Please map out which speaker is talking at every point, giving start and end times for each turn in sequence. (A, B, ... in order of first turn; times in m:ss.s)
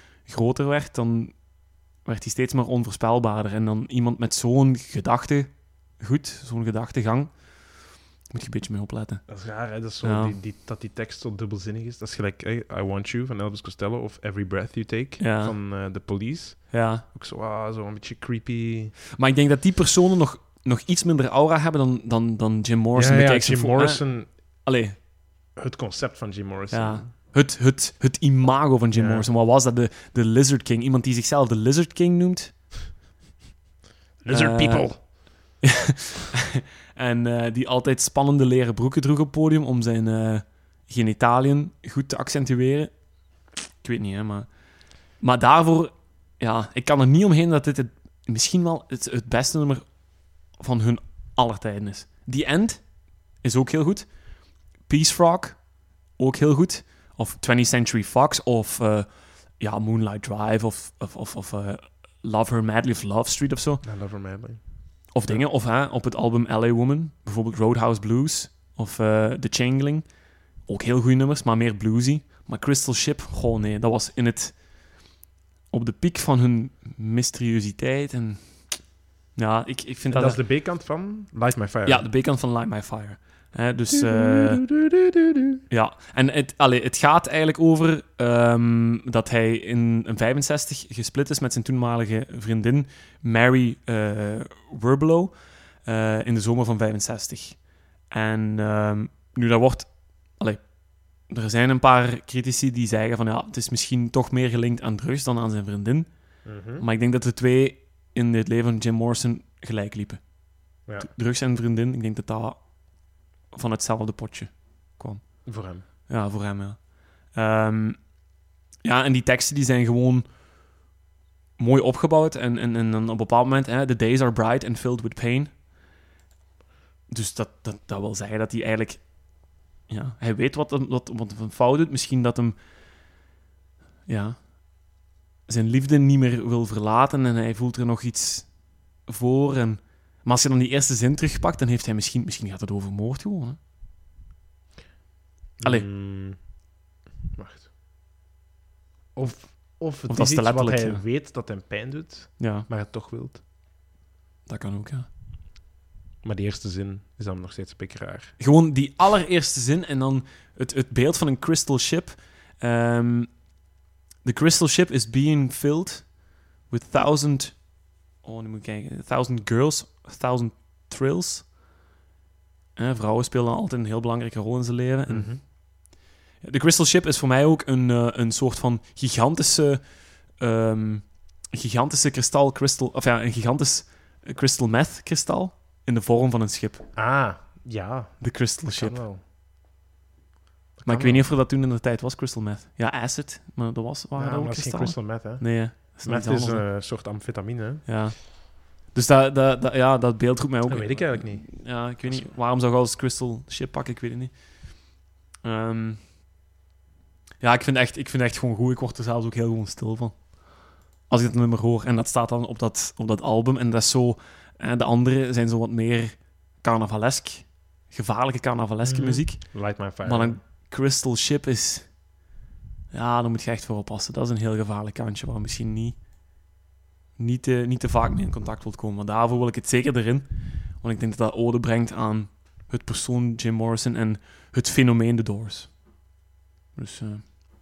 0:00.2-0:09.2 A
0:09.3-0:19.0 B
0:10.0-0:10.4 A
0:15.2-0:15.6 A
0:16.7-0:17.0 A
0:19.2-0:25.0 A
0:22.9-0:24.3 B
0:25.5-0:27.1 B
0:26.7-0:32.7 A
0:28.9-0:29.3 B
0:34.2-0:35.0 B
0:34.3-0:35.7 A
0:36.5-1:03.8 A
1:03.8-1:05.4 B
1:05.1-1:15.0 A
1:15.7-1:18.8 A
1:19.3-1:20.4 A
1:20.1-1:22.0 B
1:21.8-1:24.6 A
1:23.9-1:25.6 B
1:25.7-1:46.1 A
1:46.4-1:46.8 B
1:46.8-1:52.8 A
1:53.5-1:58.2 A
1:55.4-1:55.8 B
1:58.8-2:00.3 A
2:01.6-2:05.5 A
2:07.1-2:12.6 A
2:14.1-2:23.6 A
2:25.6-2:26.5 B
2:25.6-2:25.9 A
2:27.3-2:27.7 B
2:29.1-2:33.4 B
2:30.1-2:31.0 A
2:32.4-2:32.7 A
2:34.5-2:35.1 A
2:36.2-2:38.3 B
2:38.4-2:43.5 A
2:44.2-2:51.5 A
2:52.8-3:06.9 A
2:55.1-2:55.4 B
3:06.9-3:09.2 B
3:08.2-3:09.0 A
3:10.8-3:11.3 B
3:10.8-3:16.6 A
3:14.2-3:17.8 B
3:17.8-3:26.0 A
3:20.6-3:22.3 B
3:27.4-3:42.0 A
3:38.8-3:40.4 B
3:42.9-3:46.0 A
3:47.2-3:55.9 A
3:56.7-3:57.2 A